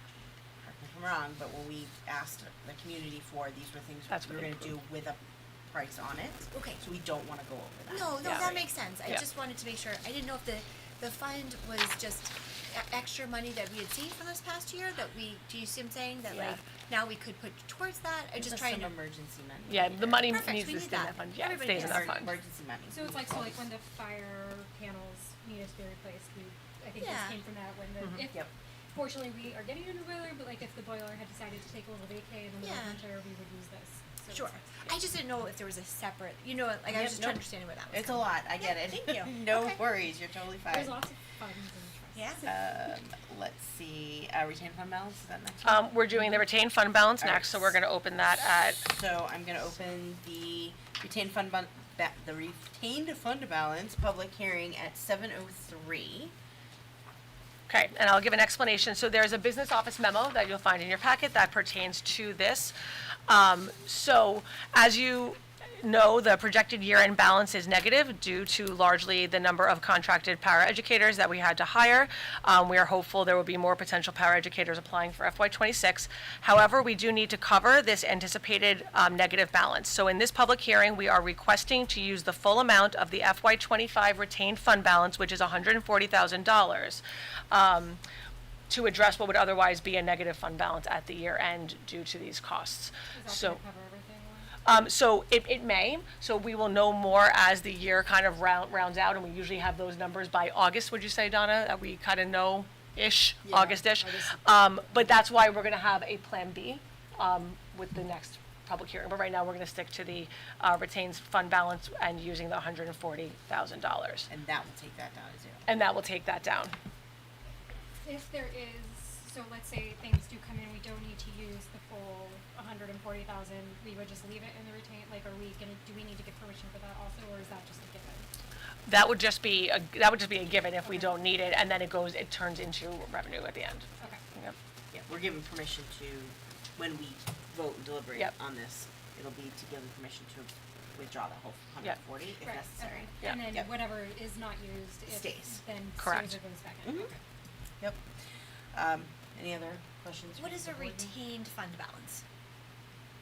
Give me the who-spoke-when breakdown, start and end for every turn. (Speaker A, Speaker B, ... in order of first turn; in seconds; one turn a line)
Speaker A: 0.6-8.6
Speaker B: 4.1-4.8
Speaker C: 6.5-6.8
Speaker C: 7.9-18.9
Speaker B: 8.2-9.2
Speaker B: 16.3-16.6
Speaker A: 18.4-20.3
Speaker B: 19.7-22.4
Speaker C: 20.3-22.1
Speaker A: 21.4-23.7
Speaker D: 22.9-34.9
Speaker C: 27.0-27.4
Speaker C: 32.6-33.0
Speaker C: 34.3-39.8
Speaker A: 36.9-41.0
Speaker D: 40.7-42.6
Speaker C: 42.1-42.5
Speaker A: 42.4-45.9
Speaker B: 45.6-48.8
Speaker A: 47.2-47.8
Speaker A: 48.8-56.3
Speaker B: 57.7-62.7
Speaker B: 63.3-88.0
Speaker B: 88.7-93.6
Speaker D: 93.1-94.5
Speaker B: 94.6-114.3
Speaker A: 103.5-103.8
Speaker A: 114.3-115.7
Speaker B: 115.7-116.7
Speaker D: 118.0-128.3
Speaker B: 128.9-134.6
Speaker D: 130.8-131.1
Speaker A: 134.9-143.7
Speaker D: 142.4-147.2
Speaker A: 145.1-145.6
Speaker B: 146.0-146.4
Speaker A: 146.8-147.1
Speaker A: 148.7-151.1
Speaker C: 150.3-152.2